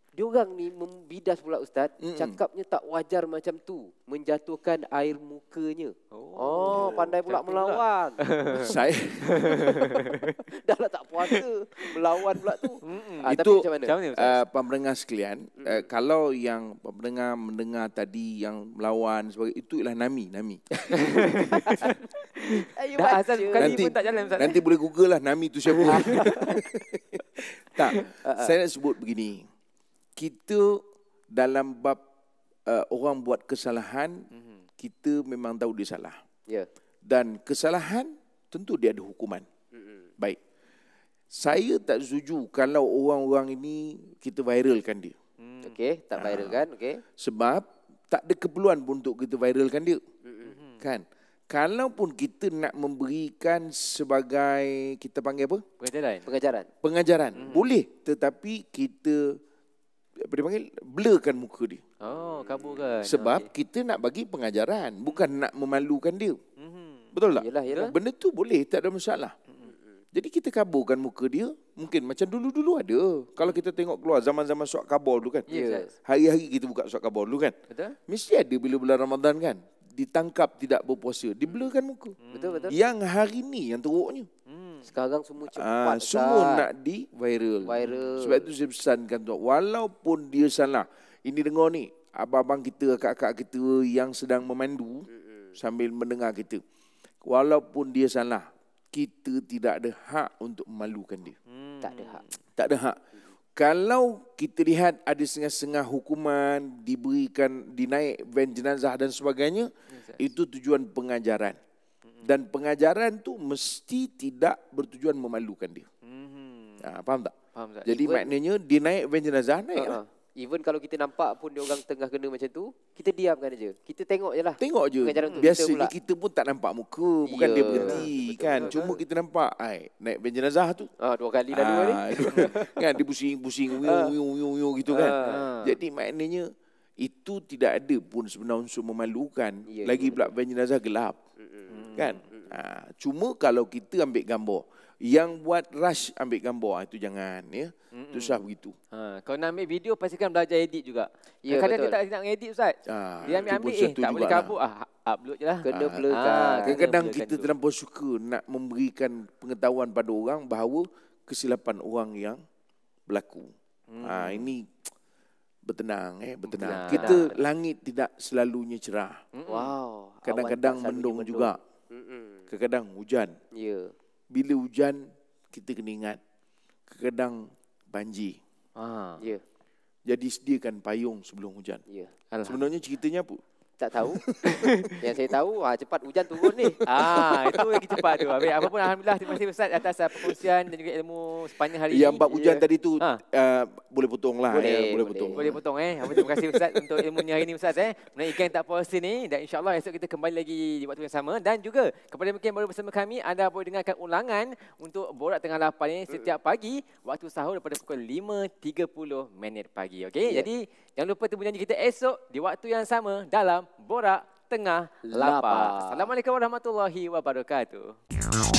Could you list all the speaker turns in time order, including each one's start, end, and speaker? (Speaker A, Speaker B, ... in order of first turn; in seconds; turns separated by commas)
Speaker A: 0.1-8.2, Speaker B: 2.0-2.4, Speaker C: 6.1-10.4, Speaker B: 6.7-7.1, Speaker B: 8.5-9.8, Speaker A: 9.7-13.9, Speaker C: 11.2-11.9, Speaker C: 12.8-14.4, Speaker B: 13.2-22.0, Speaker A: 15.6-15.8, Speaker C: 20.9-24.6, Speaker A: 21.4-21.9, Speaker A: 22.5-23.9, Speaker B: 23.5-29.5, Speaker C: 25.8-26.6, Speaker A: 25.9-26.6, Speaker A: 28.2-28.5, Speaker B: 30.2-32.0, Speaker B: 32.7-34.2, Speaker B: 34.8-36.2, Speaker B: 37.0-39.4, Speaker A: 39.7-40.1, Speaker B: 41.3-45.1, Speaker C: 45.4-45.8, Speaker A: 45.6-47.0, Speaker B: 46.1-46.6, Speaker B: 47.2-50.0, Speaker A: 50.2-50.6, Speaker C: 50.5-50.8, Speaker B: 50.8-55.6, Speaker C: 55.8-56.3, Speaker A: 56.2-56.7, Speaker B: 56.8-59.4, Speaker C: 57.3-57.7, Speaker B: 60.2-61.8, Speaker C: 62.0-63.5, Speaker B: 63.0-66.4, Speaker C: 65.0-65.4, Speaker C: 66.6-67.1, Speaker B: 67.1-69.3, Speaker A: 67.3-68.0, Speaker B: 70.1-75.5, Speaker C: 75.5-75.9, Speaker A: 75.5-75.9, Speaker B: 76.0-77.6, Speaker C: 77.7-78.0, Speaker B: 78.1-82.2, Speaker C: 82.2-82.8, Speaker A: 82.3-82.8, Speaker B: 82.7-84.3, Speaker C: 84.5-84.8, Speaker A: 84.9-86.7, Speaker B: 85.4-96.6, Speaker A: 87.6-88.5, Speaker C: 87.8-88.3, Speaker A: 95.1-95.5, Speaker B: 97.2-101.3, Speaker C: 101.5-102.4, Speaker A: 101.8-102.2, Speaker B: 102.5-103.0, Speaker B: 103.5-111.6, Speaker C: 109.9-110.2, Speaker B: 112.2-115.8, Speaker C: 116.0-116.8, Speaker B: 116.8-120.0, Speaker C: 117.5-117.9, Speaker A: 117.9-118.3, Speaker A: 119.7-125.9, Speaker B: 124.6-130.9, Speaker A: 127.2-128.8, Speaker C: 127.7-129.0, Speaker A: 131.0-132.8, Speaker B: 131.5-136.5, Speaker A: 133.7-134.1, Speaker A: 134.9-135.5, Speaker C: 135.2-135.8, Speaker B: 137.0-141.2, Speaker A: 139.7-140.3, Speaker A: 141.4-142.5, Speaker C: 141.7-142.2, Speaker B: 141.9-148.7, Speaker C: 147.9-157.5, Speaker A: 151.4-152.0, Speaker B: 152.8-154.6, Speaker A: 155.6-156.8, Speaker B: 155.7-162.4, Speaker B: 163.1-163.5, Speaker C: 163.9-164.5, Speaker B: 164.0-164.7, Speaker B: 165.7-169.2, Speaker C: 166.4-167.4, Speaker A: 166.9-167.3, Speaker C: 169.3-169.7, Speaker A: 169.5-172.5, Speaker B: 170.2-171.6, Speaker B: 172.5-173.3, Speaker A: 173.5-173.9, Speaker B: 174.3-176.2, Speaker B: 176.9-178.4, Speaker C: 178.8-179.2, Speaker B: 180.1-181.8, Speaker A: 181.9-182.1, Speaker C: 182.3-182.7, Speaker B: 182.4-183.4, Speaker A: 183.8-184.2, Speaker B: 184.1-185.1, Speaker C: 184.4-185.0, Speaker A: 185.0-186.9, Speaker B: 186.4-188.7, Speaker C: 186.8-193.2, Speaker B: 190.1-190.4, Speaker B: 191.8-197.2, Speaker A: 194.5-195.6, Speaker C: 195.3-218.0, Speaker A: 206.1-206.3, Speaker A: 210.2-210.5, Speaker A: 215.0-216.1